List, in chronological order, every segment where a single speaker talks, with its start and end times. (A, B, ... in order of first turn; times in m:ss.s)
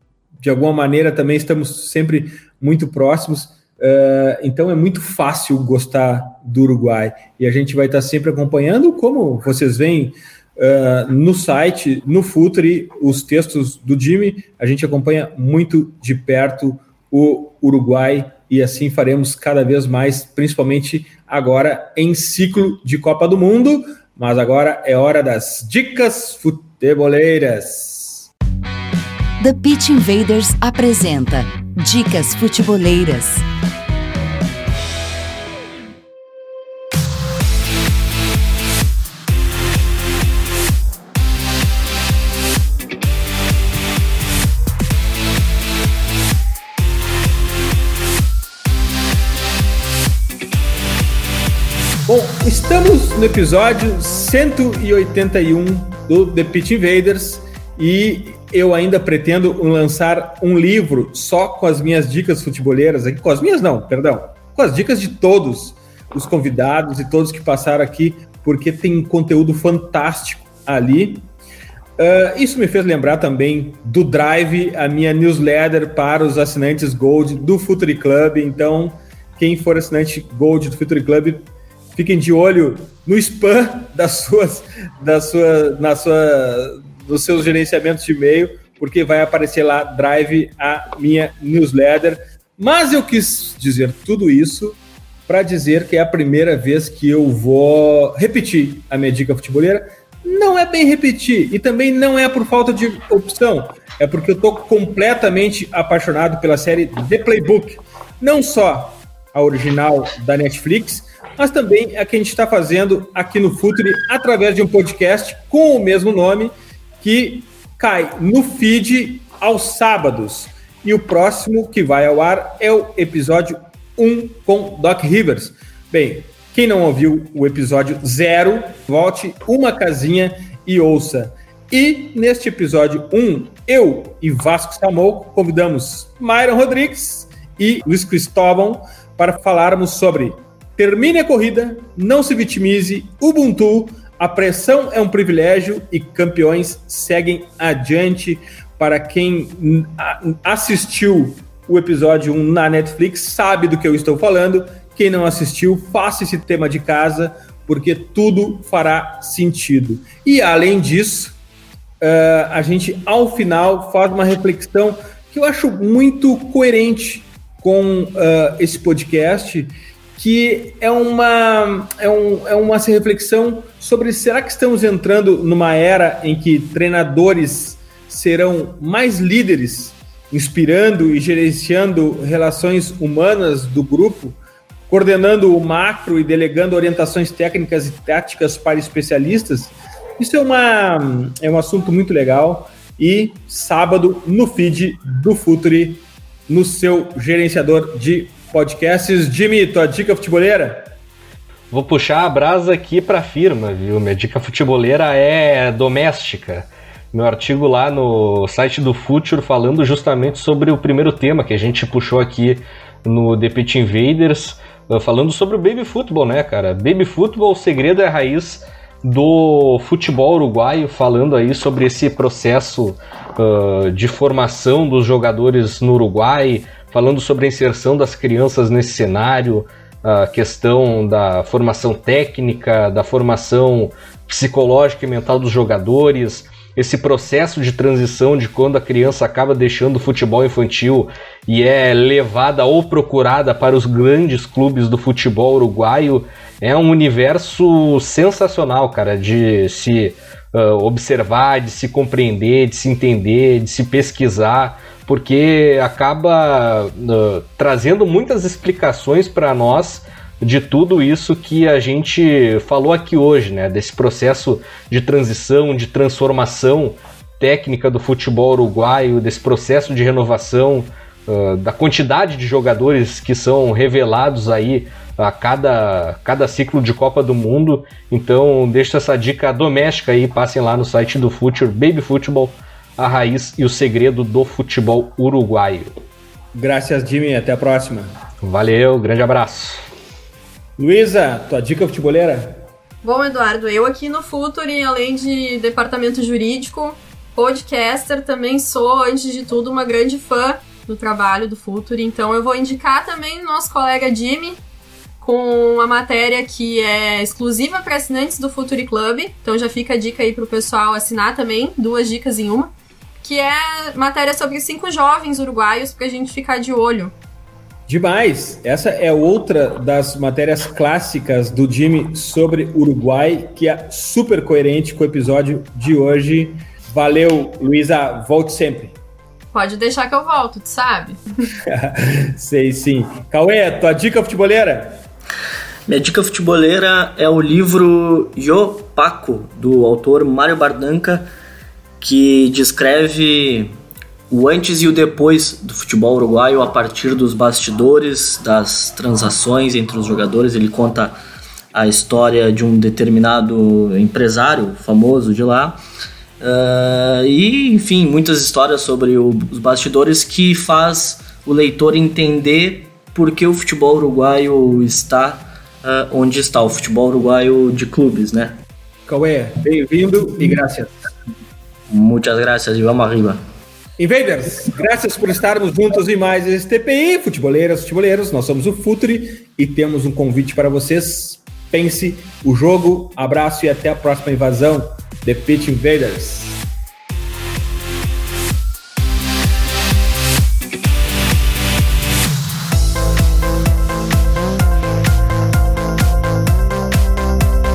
0:00.4-0:28.3 A
0:29.4-0:33.4 B
0:52.1-1:11.3 A
1:12.0-1:34.8 A
1:35.3-2:41.4 A
2:42.0-3:04.4 A
3:04.9-3:20.9 A
3:21.7-4:45.9 C
4:46.5-4:48.1 A
4:48.4-4:49.8 C
4:50.8-4:52.6 A
4:53.0-5:04.6 D
5:05.2-5:17.1 D
5:17.9-5:29.0 A
5:29.5-5:31.2 D
5:31.6-5:35.0 A
5:35.9-5:41.3 E
5:42.0-5:43.7 E
5:44.3-5:51.2 E
5:51.7-5:55.8 E
5:56.4-6:08.6 E
6:09.1-6:10.9 A
6:11.9-6:13.4 E
6:14.0-6:26.6 A